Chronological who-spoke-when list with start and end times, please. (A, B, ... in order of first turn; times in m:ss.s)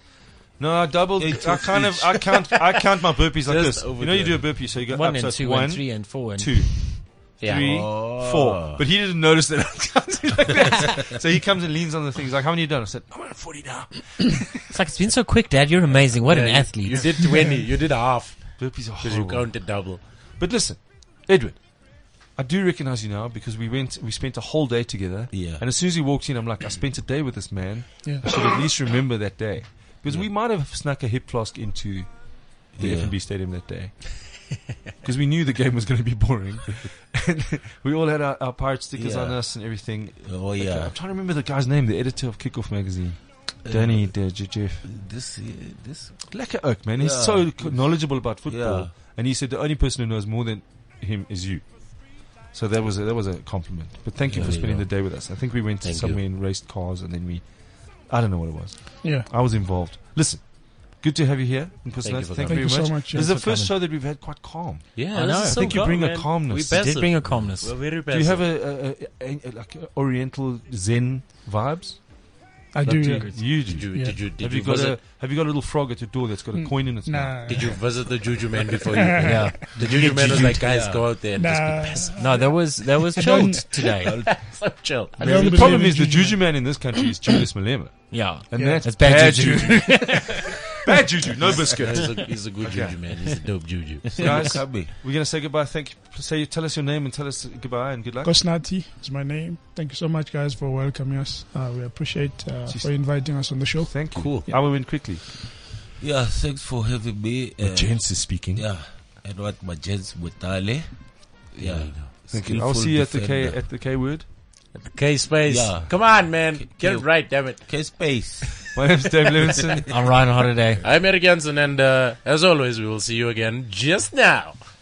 0:00.6-0:14.7 A
0:01.2-0:02.6 B
0:03.4-0:04.6 C
0:04.9-0:06.5 D
0:07.4-0:08.0 C
0:07.4-0:08.8 B
0:14.7-0:17.2 D
0:16.3-0:20.3 C
0:18.6-0:44.8 A
0:25.3-0:25.6 B
0:32.7-0:33.2 B
0:38.9-0:41.0 B
0:43.6-0:46.3 B
0:46.2-1:06.8 A
0:46.9-0:48.9 B
0:54.2-0:55.0 B
0:55.8-0:56.2 C
0:59.0-0:59.3 E
1:02.0-1:02.9 C
1:02.4-1:03.7 E
1:03.1-1:03.7 D
1:05.0-1:08.5 C
1:05.1-1:07.7 D
1:08.1-1:12.3 A
1:12.7-1:14.3 E
1:12.8-1:15.0 C
1:12.8-1:13.4 D
1:13.2-1:17.8 A
1:16.5-1:17.8 E
1:17.4-1:22.2 C
1:18.9-1:19.6 E
1:19.2-1:20.8 D
1:20.6-1:21.1 B
1:21.4-1:23.8 E
1:22.2-1:24.4 D
1:24.0-1:25.8 C
1:24.0-1:24.3 B
1:25.2-1:26.9 E
1:25.2-1:33.0 A
1:28.1-1:30.8 D
1:28.5-1:28.8 E
1:31.5-1:34.6 C
1:34.1-1:34.9 B
1:34.1-1:38.4 A
1:38.2-1:44.6 E
1:42.6-1:43.1 A
1:43.8-1:45.5 A
1:44.1-1:44.5 C
1:46.0-1:53.6 B
1:47.6-1:48.6 A
1:51.6-1:52.1 C
1:52.3-1:54.3 A
1:54.8-1:58.2 C
1:55.4-1:58.7 B
1:58.7-1:59.9 A
1:59.9-2:00.8 D
2:00.8-2:04.6 C